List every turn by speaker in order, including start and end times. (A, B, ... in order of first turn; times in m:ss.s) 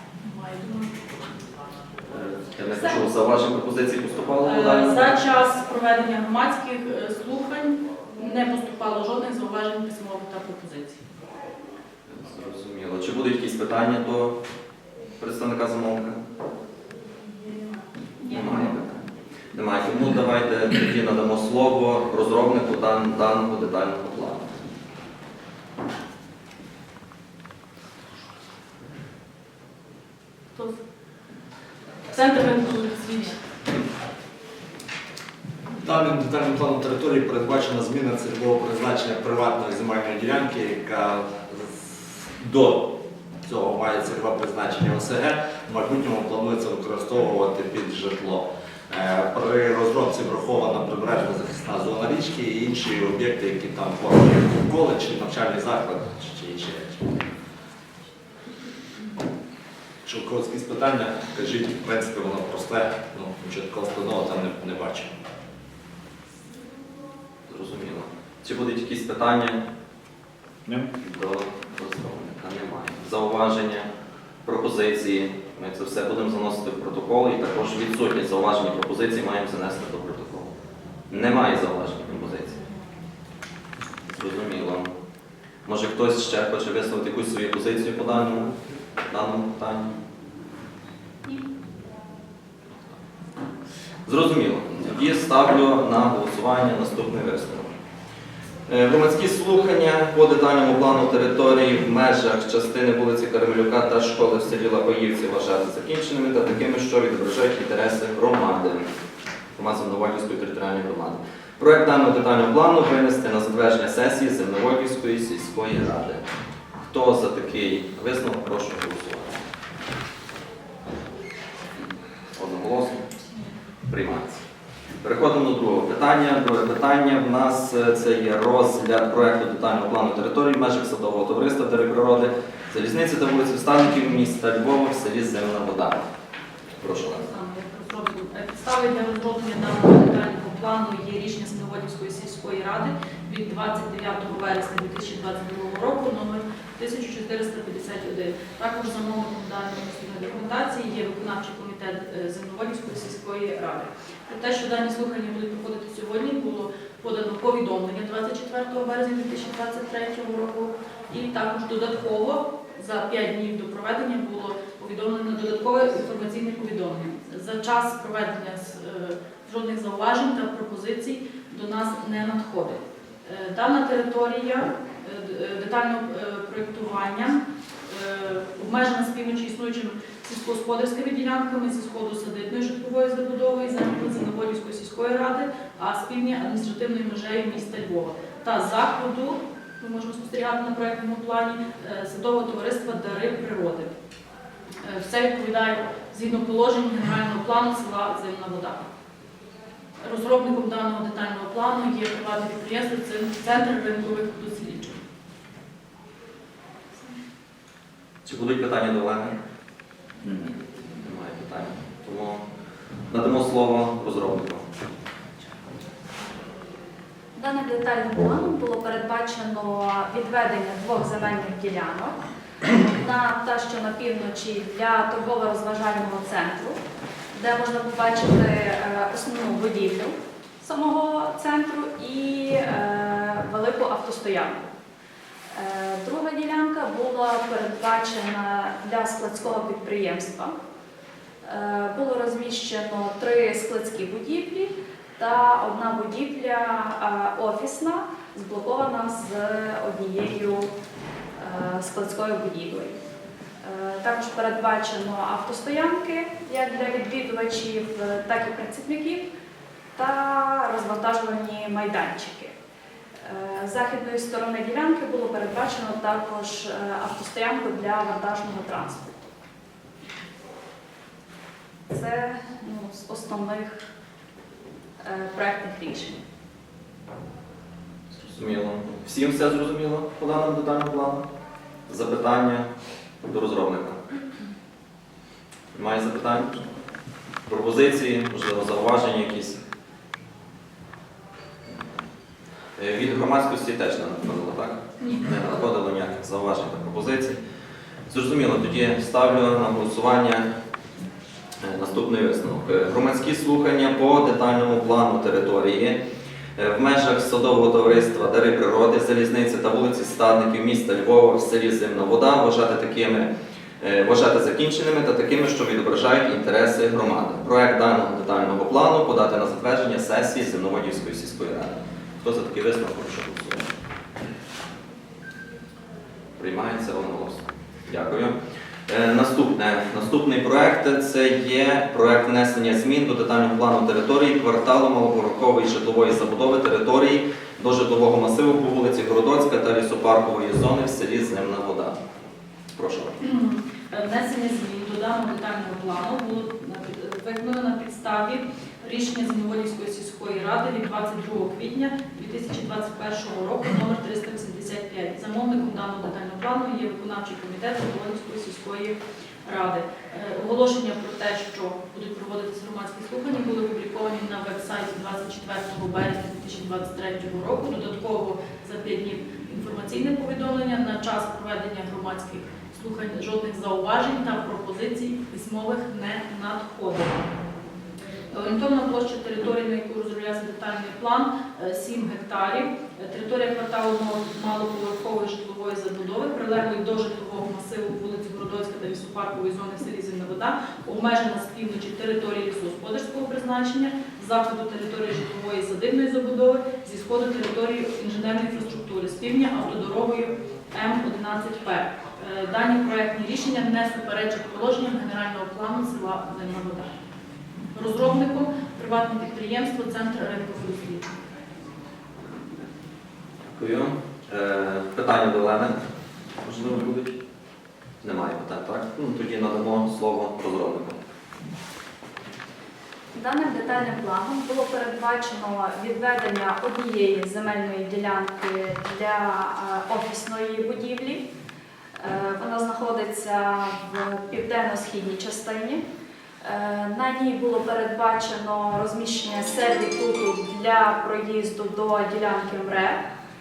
0:00.2-0:01.0 A
0:02.1-0:05.2 B
0:04.4-0:11.0 A
0:12.1-0:14.3 B
0:15.2-0:16.2 B
0:18.2-0:19.0 B
0:19.5-0:24.6 B
0:32.1-0:33.4 A
0:35.8-0:42.9 C
0:43.4-0:57.1 C
1:00.0-1:05.1 C
1:07.5-1:09.6 B
1:11.0-1:13.9 B
1:14.4-1:20.5 B
1:21.1-1:22.6 B
1:24.1-1:24.9 B
1:25.6-1:28.5 B
1:29.1-1:29.9 B
1:34.0-1:37.7 B
1:38.7-1:48.8 B
1:49.6-1:56.2 B
1:56.8-1:59.4 B
2:02.4-2:03.0 B
2:03.9-2:04.4 B
2:05.0-2:16.0 B
2:16.8-2:17.3 B
2:17.3-3:13.9 A
3:14.8-3:18.8 A
3:20.0-3:25.0 A
3:28.2-3:29.3 B
3:30.2-3:32.4 B
3:33.1-3:34.6 B
3:37.3-3:46.8 D
3:47.3-3:54.7 D
3:55.5-4:00.5 D
4:01.4-4:10.7 D
4:11.4-4:13.0 D
4:13.6-4:19.2 D
4:19.9-4:22.5 D
4:23.2-4:29.1 D
4:31.9-4:33.8 D
4:35.0-4:36.2 D
4:38.2-4:41.2 B
4:41.9-4:42.7 B
4:43.2-4:44.0 B
4:45.7-4:46.6 B
4:47.5-4:49.6 B
4:52.8-4:57.4 B
4:55.0-4:55.3 A
4:58.1-5:00.4 B
5:01.6-5:06.0 B
5:06.6-5:13.3 B
5:13.8-5:23.7 B
5:26.4-5:28.3 B
5:28.9-5:42.0 B
5:42.7-5:43.1 B
5:43.2-6:17.2 A
6:18.3-6:46.9 A
6:47.7-6:51.1 A
6:53.5-6:55.8 B
6:56.4-6:57.2 B
6:58.0-7:01.0 B
7:03.1-7:11.2 D
7:12.0-7:15.8 D
7:16.4-7:23.0 D